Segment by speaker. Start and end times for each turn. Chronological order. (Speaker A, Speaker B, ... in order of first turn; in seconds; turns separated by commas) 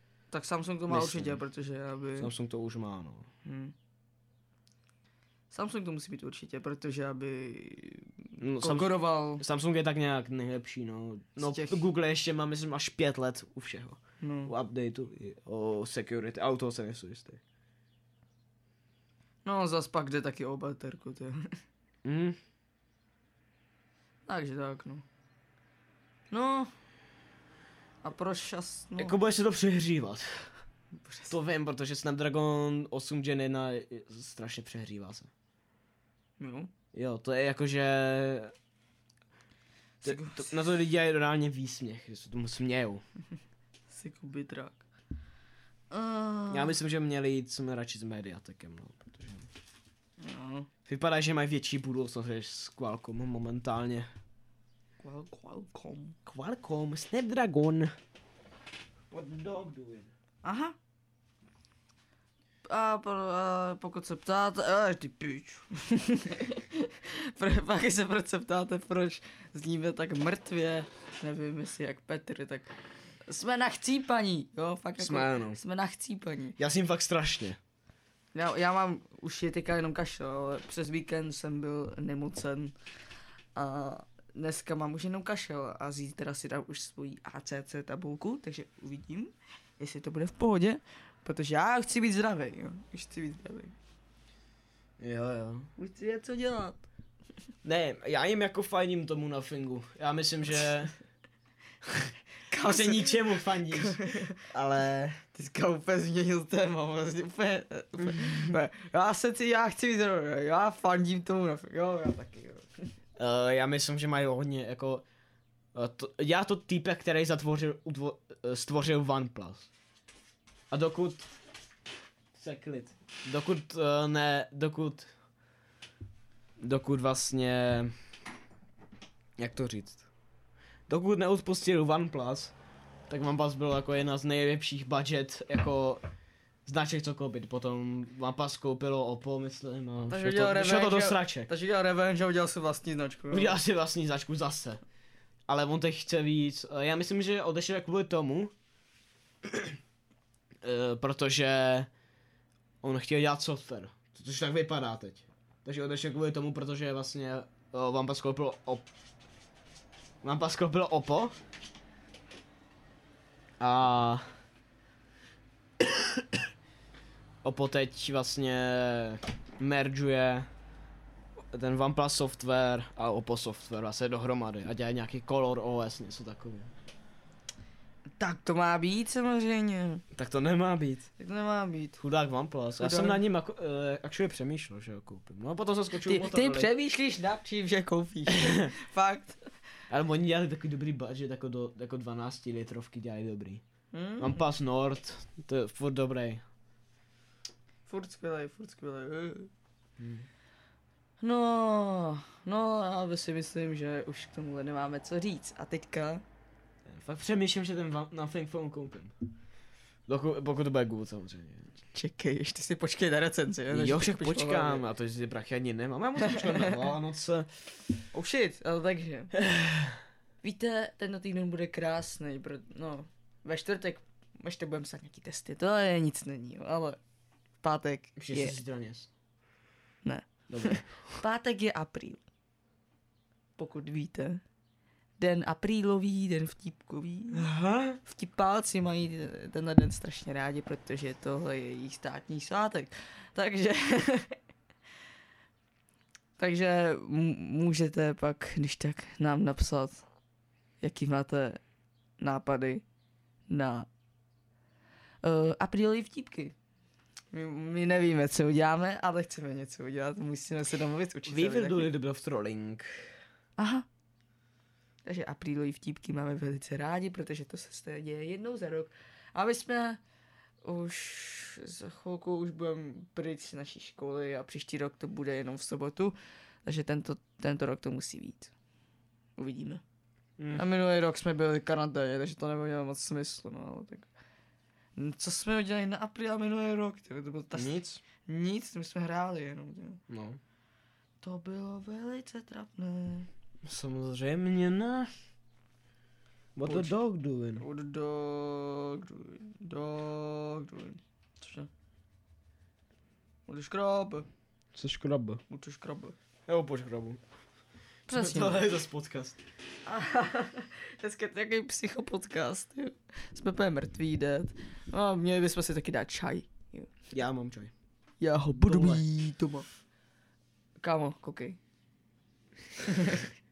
Speaker A: 0.3-2.3, Speaker B: 0.9-1.4, Speaker B: 2.2-3.3, Speaker A: 3.4-3.7, Speaker A: 5.5-9.4, Speaker B: 8.4-17.4, Speaker A: 11.4-11.8, Speaker A: 14.2-14.5, Speaker A: 19.4-21.5, Speaker B: 22.0-22.4, Speaker A: 24.3-25.0, Speaker A: 26.3-26.7, Speaker A: 28.0-29.2, Speaker B: 29.0-30.5, Speaker A: 31.0-31.3, Speaker B: 31.3-35.3, Speaker A: 36.4-36.7, Speaker B: 36.9-38.5, Speaker A: 40.0-40.5, Speaker B: 40.0-43.0, Speaker A: 43.9-44.8, Speaker A: 45.9-46.7, Speaker B: 46.5-49.5, Speaker A: 50.2-50.7, Speaker B: 50.9-54.1, Speaker A: 55.0-56.2, Speaker B: 56.2-57.9, Speaker B: 59.1-60.1, Speaker A: 60.4-60.8, Speaker A: 62.7-72.7, Speaker A: 73.3-76.6, Speaker B: 75.0-75.6, Speaker B: 76.6-77.6, Speaker A: 78.3-82.7, Speaker A: 83.5-93.8, Speaker B: 95.0-95.7, Speaker A: 95.8-96.8, Speaker B: 97.6-100.9, Speaker B: 101.9-105.2, Speaker A: 102.5-104.4, Speaker A: 105.2-112.8, Speaker B: 108.0-108.5, Speaker B: 113.2-115.0, Speaker B: 115.7-119.7, Speaker B: 120.7-121.3, Speaker B: 122.3-125.1, Speaker B: 126.6-127.9, Speaker B: 129.4-130.0, Speaker B: 130.9-132.5, Speaker B: 133.1-136.0, Speaker B: 136.7-141.5, Speaker A: 140.1-143.6, Speaker B: 143.3-144.8, Speaker B: 145.5-148.5, Speaker B: 149.4-149.7, Speaker B: 150.6-151.9, Speaker B: 152.8-158.8, Speaker B: 160.2-161.3, Speaker B: 163.6-164.2, Speaker B: 165.8-166.4, Speaker B: 167.4-170.5, Speaker B: 171.5-176.7, Speaker A: 178.2-180.0, Speaker B: 180.1-181.1, Speaker A: 181.2-182.0, Speaker B: 182.0-186.7, Speaker A: 182.8-183.2, Speaker A: 185.9-189.5, Speaker B: 188.4-188.7, Speaker B: 189.9-193.6, Speaker A: 193.9-194.4, Speaker B: 194.2-196.4, Speaker A: 197.9-199.5, Speaker B: 200.0-200.3, Speaker A: 201.2-206.2, Speaker B: 206.8-209.1, Speaker B: 210.1-211.7, Speaker A: 211.9-214.8, Speaker B: 213.7-217.5, Speaker A: 216.2-216.9, Speaker A: 218.1-219.3, Speaker B: 219.4-220.0, Speaker A: 220.4-227.0, Speaker A: 227.6-228.6, Speaker B: 228.2-229.1, Speaker A: 230.0-232.2, Speaker B: 230.5-230.9, Speaker A: 233.6-234.4, Speaker A: 235.2-237.4, Speaker B: 237.3-238.0, Speaker A: 238.0-244.4, Speaker A: 246.4-250.0, Speaker A: 250.8-251.6, Speaker A: 252.2-252.8, Speaker A: 253.5-253.9, Speaker A: 255.2-256.5, Speaker A: 257.3-261.9, Speaker B: 261.3-263.1, Speaker A: 263.6-263.9, Speaker A: 265.0-270.0, Speaker A: 270.6-278.5, Speaker A: 279.4-279.8, Speaker B: 280.4-280.6, Speaker A: 280.5-284.0, Speaker A: 284.9-290.0, Speaker B: 287.5-288.0, Speaker B: 290.1-290.4, Speaker A: 291.2-293.3, Speaker B: 293.6-295.1, Speaker B: 296.6-297.6, Speaker A: 296.6-296.9, Speaker A: 297.6-301.7, Speaker A: 303.5-304.3, Speaker B: 304.7-305.4, Speaker A: 305.5-306.1, Speaker B: 306.5-307.2, Speaker A: 308.1-308.6, Speaker B: 308.1-309.4, Speaker A: 309.8-316.9, Speaker B: 317.1-317.7, Speaker A: 318.2-319.7, Speaker B: 318.6-319.0, Speaker A: 320.8-321.6, Speaker A: 322.8-323.3